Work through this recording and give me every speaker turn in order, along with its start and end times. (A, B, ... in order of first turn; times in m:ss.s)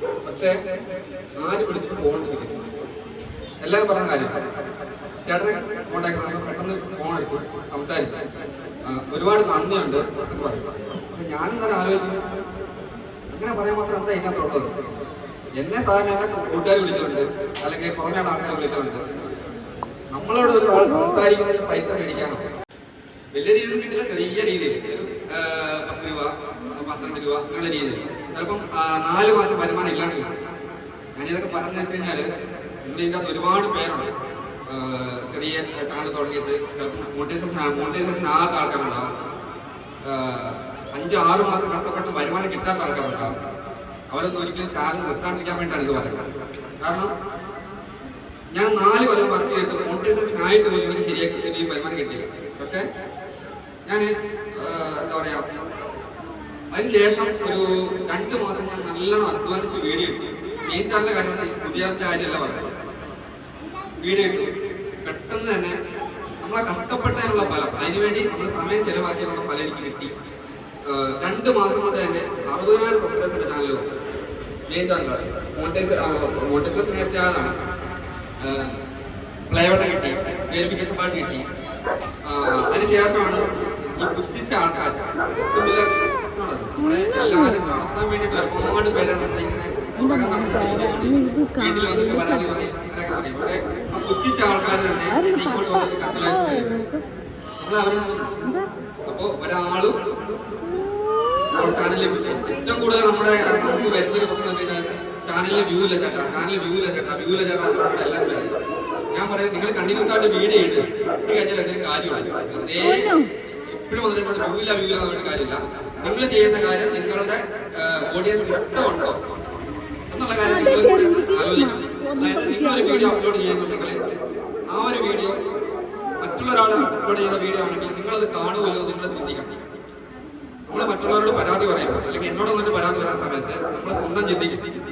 0:00.2-0:00.6 A
0:01.4-0:02.6 A
0:03.6-0:04.4 A
0:05.2-0:08.1 A
0:08.8-0:12.2 A
0:13.3-0:14.7 A
0:15.6-0:19.0 A
0:20.1-0:22.4 A
0:23.3-0:30.3 A
0:31.2-0:32.3 A
0:32.8-0:34.1 A
0:34.7-0:39.1 A
0:40.0-0:43.3 A
0:44.1-0:46.3 A
0:46.8-0:47.1 A
0:48.5-0:52.8 A
0:53.8-0:55.4 A
0:56.7-1:02.7 A
1:04.0-1:04.5 A
1:05.0-1:05.8 A
1:06.4-1:10.1 A
1:10.8-1:13.8 A
1:14.7-1:17.5 A
1:18.4-1:18.7 A
1:19.5-1:21.4 A
1:22.2-1:23.4 A
1:24.0-1:36.9 A
1:37.6-1:38.3 A
1:39.0-1:40.0 A
1:41.5-1:48.5 A
1:49.1-1:59.2 A
2:00.1-2:04.0 A
2:04.7-2:05.4 A
2:06.2-2:09.5 A
2:10.7-2:14.6 A